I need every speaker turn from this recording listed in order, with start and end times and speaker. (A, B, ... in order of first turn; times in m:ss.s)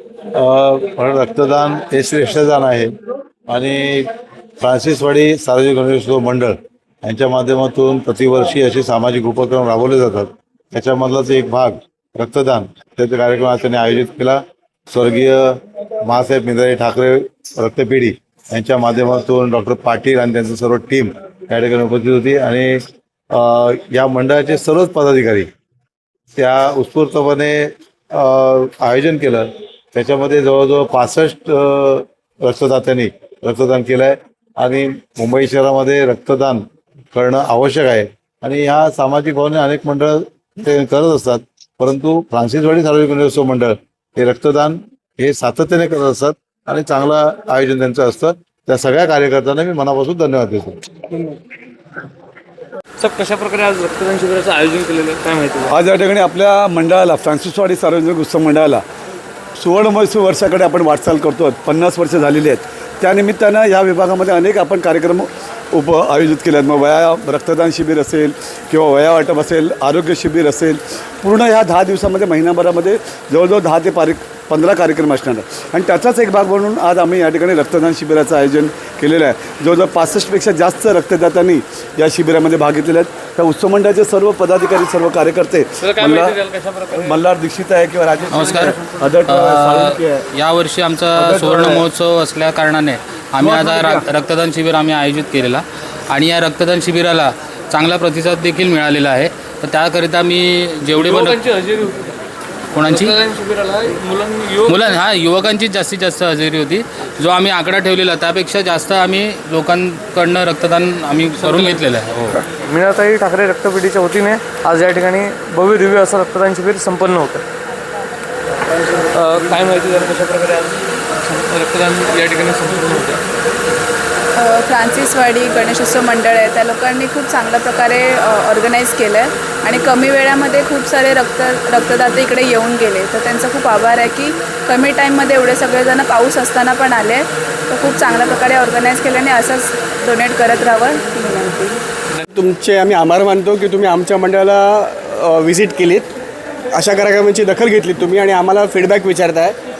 0:00.3-0:02.9 A
0:03.5-0:22.8 A
0:23.3-0:25.5 A
0:26.4-0:50.8 A
0:53.0-0:55.7 B
0:55.7-0:58.8 C
0:59.6-1:26.3 C
1:25.8-1:27.2 B
1:26.9-1:30.2 C
1:28.3-1:28.7 D
1:28.3-1:29.1 B
1:29.3-1:41.4 D
1:31.2-1:31.8 C
1:33.4-1:34.0 C
1:40.9-1:42.1 B
1:42.7-1:43.1 D
1:42.8-1:45.0 B
1:44.7-1:52.4 D
1:51.4-1:51.8 B
1:52.4-1:57.4 B
1:59.1-2:03.2 B
2:04.4-2:21.8 E
2:22.4-2:26.1 F
2:26.7-2:29.6 F